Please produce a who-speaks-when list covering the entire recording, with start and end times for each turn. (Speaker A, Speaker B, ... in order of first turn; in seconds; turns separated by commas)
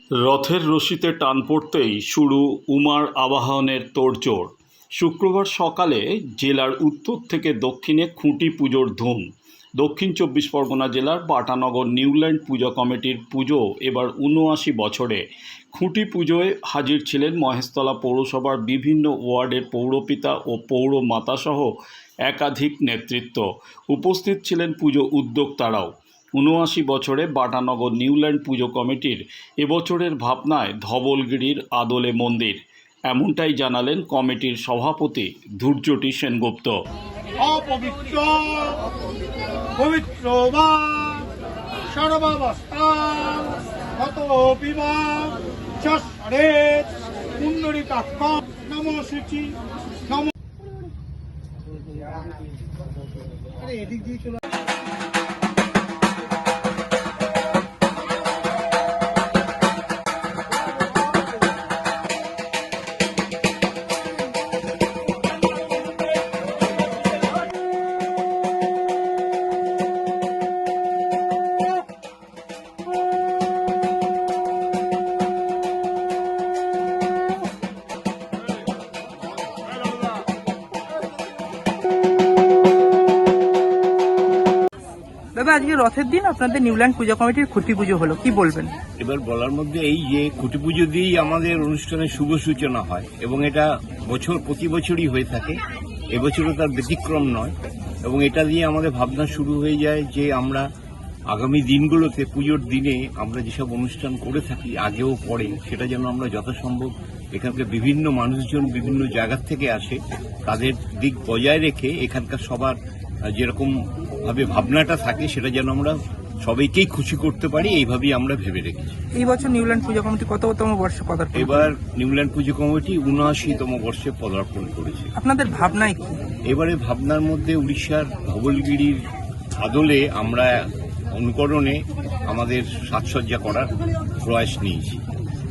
Speaker A: 0.2-9.2, Speaker A: 9.8-36.7, Speaker B: 37.4-38.8, Speaker B: 39.8-41.2, Speaker B: 41.9-49.5, Speaker C: 85.3-88.7, Speaker D: 89.0-95.6, Speaker D: 96.1-100.7, Speaker D: 101.3-112.8, Speaker D: 113.3-119.0, Speaker C: 119.2-121.7, Speaker D: 121.3-125.1, Speaker C: 125.2-126.2, Speaker D: 126.5-129.1, Speaker D: 129.6-135.0